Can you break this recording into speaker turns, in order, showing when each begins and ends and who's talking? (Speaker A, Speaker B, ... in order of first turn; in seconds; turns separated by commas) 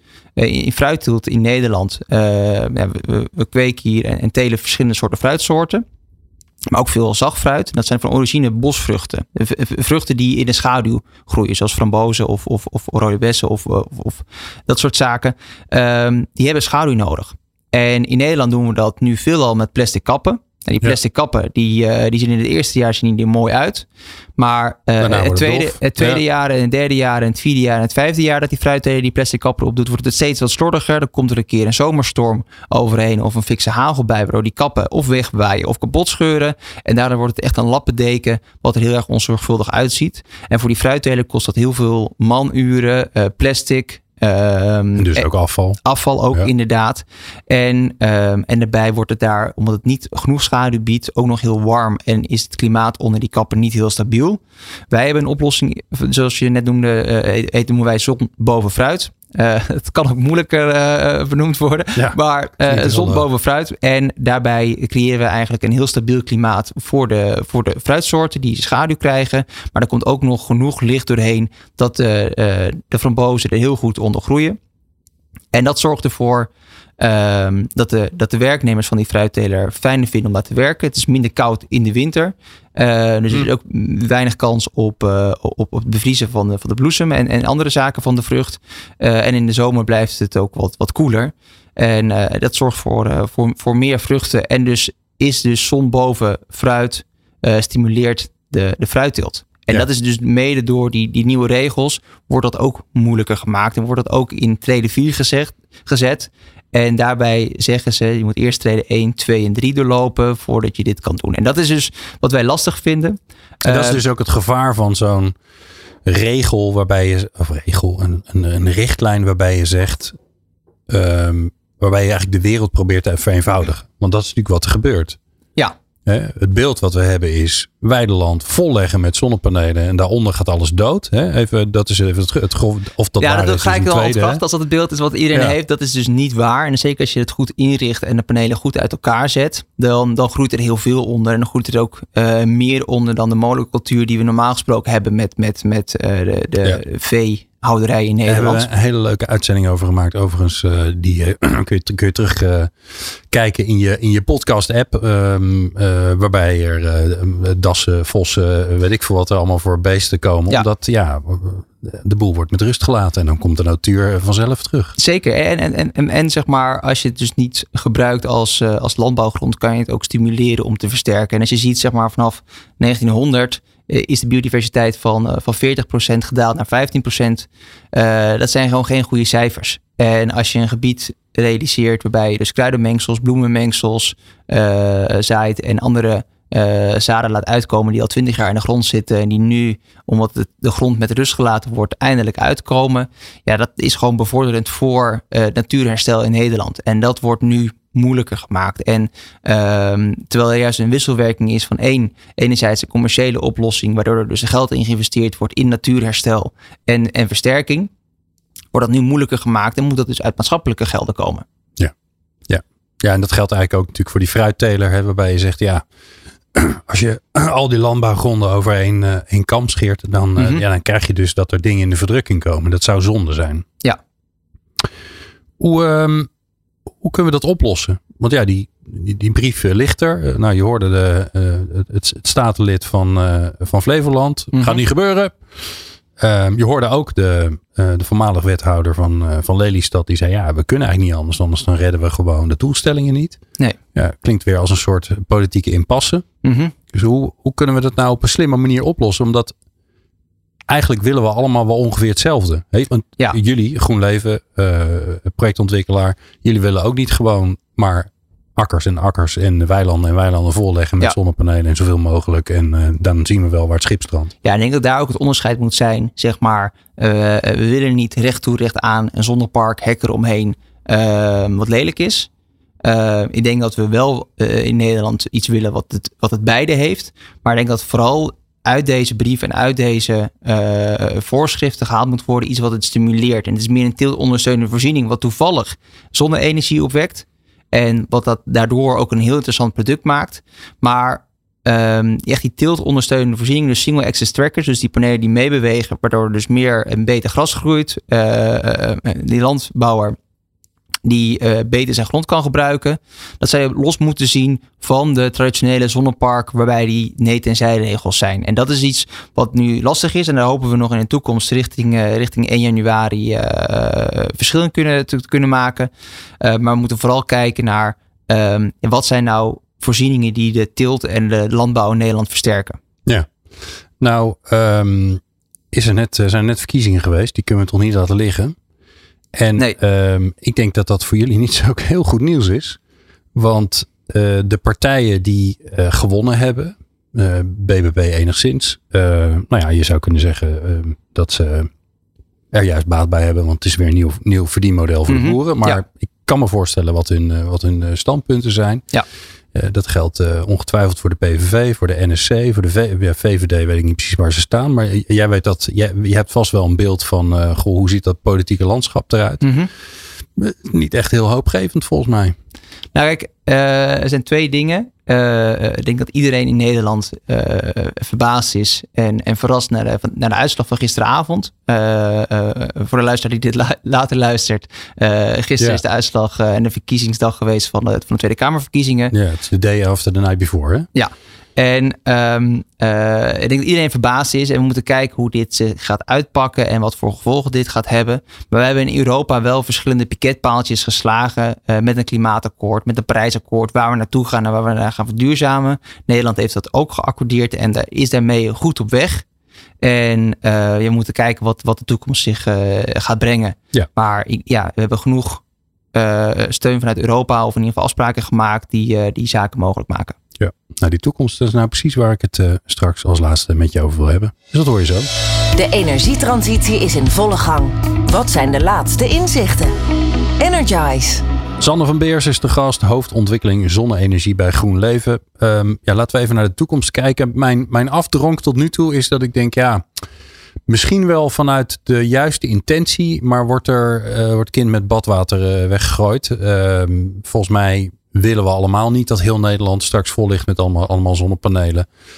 Speaker A: 0.4-5.8, Speaker A: 6.7-23.9, Speaker A: 24.4-45.3, Speaker B: 25.0-26.2, Speaker B: 45.0-46.5, Speaker A: 45.8-74.6, Speaker B: 61.9-63.2, Speaker A: 75.5-114.0, Speaker B: 113.6-115.3, Speaker B: 116.0-120.2, Speaker B: 120.9-125.2, Speaker B: 126.0-134.4, Speaker A: 133.2-148.7, Speaker B: 148.2-164.9, Speaker A: 164.9-207.9, Speaker A: 208.7-211.4, Speaker B: 212.5-215.8, Speaker B: 216.5-223.7, Speaker A: 220.4-220.6, Speaker B: 225.6-226.3, Speaker B: 227.0-243.4, Speaker A: 234.5-234.8, Speaker B: 243.9-246.2, Speaker A: 246.4-246.7, Speaker B: 246.9-249.5, Speaker B: 250.7-264.3, Speaker A: 264.4-272.3, Speaker A: 272.8-300.1, Speaker A: 301.0-315.9, Speaker A: 316.4-322.8, Speaker B: 323.1-323.3, Speaker B: 324.0-325.2, Speaker B: 325.7-328.6, Speaker B: 329.3-332.8, Speaker B: 333.3-341.7, Speaker B: 342.5-348.8, Speaker A: 345.1-345.8, Speaker B: 349.5-359.4, Speaker A: 359.4-359.7, Speaker B: 360.4-362.4, Speaker A: 362.9-379.1, Speaker B: 379.1-380.9, Speaker A: 380.9-399.2, Speaker A: 399.8-405.4, Speaker A: 405.9-410.1, Speaker B: 410.4-415.1, Speaker C: 415.5-419.7, Speaker C: 420.4-421.2, Speaker B: 421.6-429.9, Speaker B: 430.7-441.9